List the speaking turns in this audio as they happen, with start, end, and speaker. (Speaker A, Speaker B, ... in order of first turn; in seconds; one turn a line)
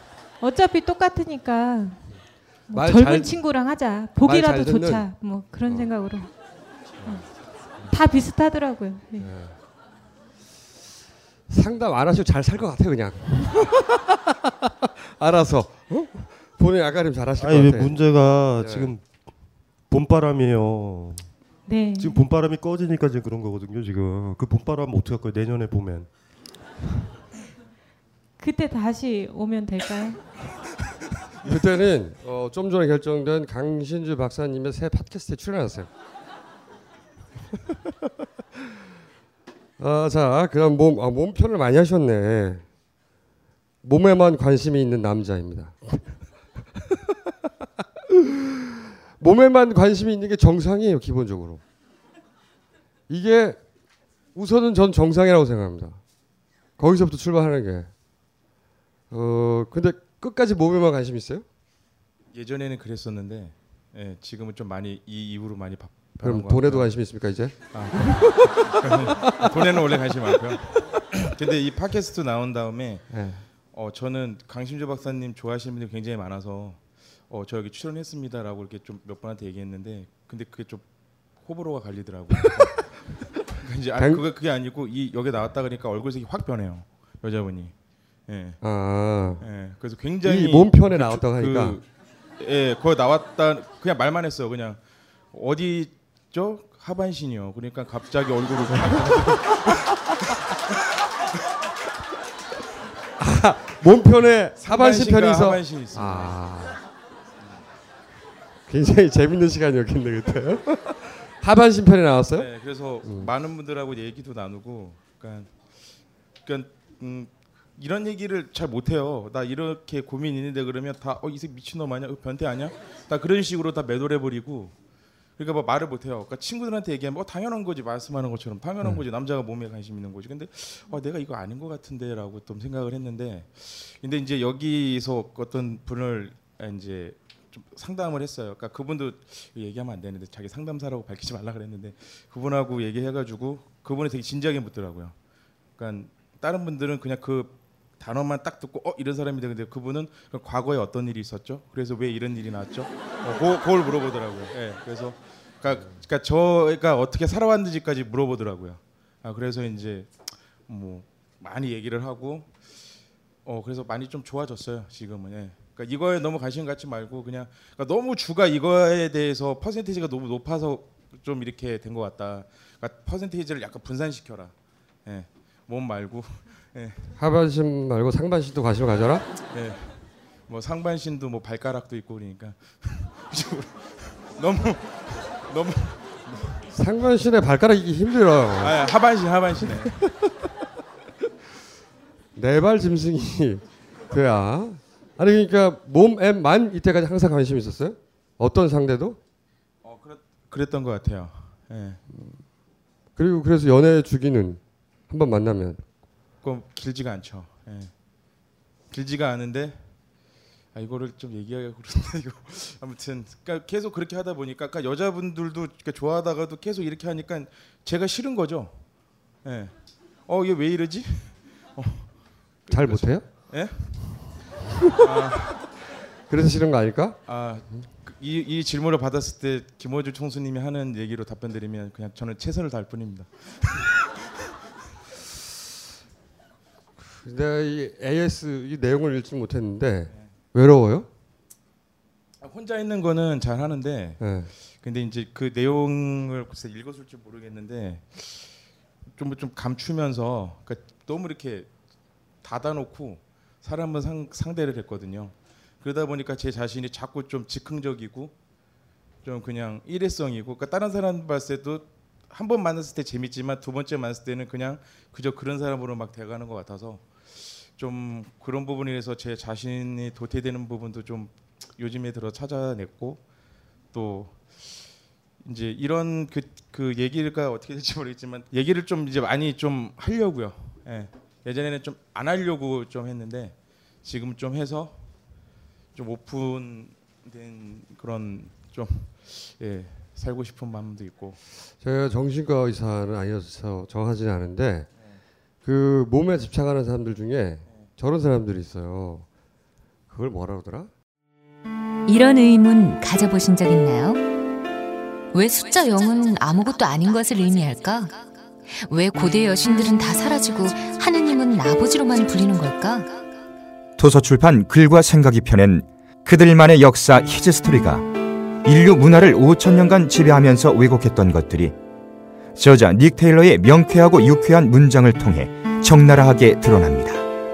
Speaker A: 0.4-2.1
Speaker A: 2.7-6.3
Speaker B: 2.7-3.5
Speaker B: 4.2-5.1
Speaker B: 5.7-5.9
Speaker A: 7.8-9.3
Speaker B: 9.2-9.6
Speaker B: 11.5-14.2
Speaker B: 15.2-18.9
Speaker C: 17.4-19.1
Speaker C: 19.9-21.3
Speaker A: 21.7-22.2
Speaker C: 22.0-26.1
Speaker A: 28.4-30.2
Speaker B: 31.4-35.9
Speaker B: 39.8-42.6
Speaker B: 43.8-46.1
Speaker B: 48.1-48.4
Speaker B: 49.2-51.6
Speaker B: 53.1-53.6
Speaker B: 54.4-56.0
Speaker B: 56.8-57.9
Speaker B: 59.1-61.5
Speaker D: 62.3-67.1
Speaker B: 66.2-70.4
Speaker D: 67.7-80.8
Speaker B: 73.1-73.5
Speaker D: 81.4-83.0
Speaker D: 83.5-87.7
Speaker B: 84.0-84.2
Speaker D: 88.3-88.6
Speaker B: 88.6-89.5
Speaker D: 89.4-91.9
Speaker B: 90.2-91.8
Speaker D: 92.4-94.8
Speaker D: 95.3-99.7
Speaker B: 98.8-99.1
Speaker B: 103.2-106.8
Speaker D: 104.5-106.4
Speaker B: 108.7-112.5
Speaker D: 112.3-115.7
Speaker B: 113.0-113.3
Speaker D: 116.4-124.7
Speaker D: 125.4-145.2
Speaker D: 145.8-162.8
Speaker D: 163.5-174.5
Speaker D: 175.1-177.1
Speaker B: 177.2-179.3
Speaker D: 179.5-186.6
Speaker B: 186.7-188.9
Speaker D: 188.6-190.0
Speaker B: 189.6-189.9
Speaker B: 192.4-199.2
Speaker D: 199.8-202.0
Speaker B: 203.2-205.8
Speaker D: 206.4-207.9
Speaker D: 208.9-209.8
Speaker D: 210.7-218.8
Speaker D: 219.4-219.7
Speaker D: 220.3-224.3
Speaker B: 222.7-223.5
Speaker D: 225.0-225.7
Speaker B: 226.3-227.2
Speaker D: 227.3-233.8
Speaker B: 237.2-241.1
Speaker D: 242.4-248.6
Speaker B: 244.2-244.5
Speaker D: 249.1-251.7
Speaker D: 252.4-258.3
Speaker D: 259.2-273.2
Speaker D: 273.9-274.9
Speaker D: 275.4-285.0
Speaker D: 285.9-291.4
Speaker B: 291.8-294.9
Speaker B: 295.6-299.3
Speaker B: 300.1-300.9
Speaker E: 302.1-304.2
Speaker E: 305.3-313.2
Speaker F: 314.0-318.1
Speaker F: 318.6-321.7
Speaker F: 322.6-327.2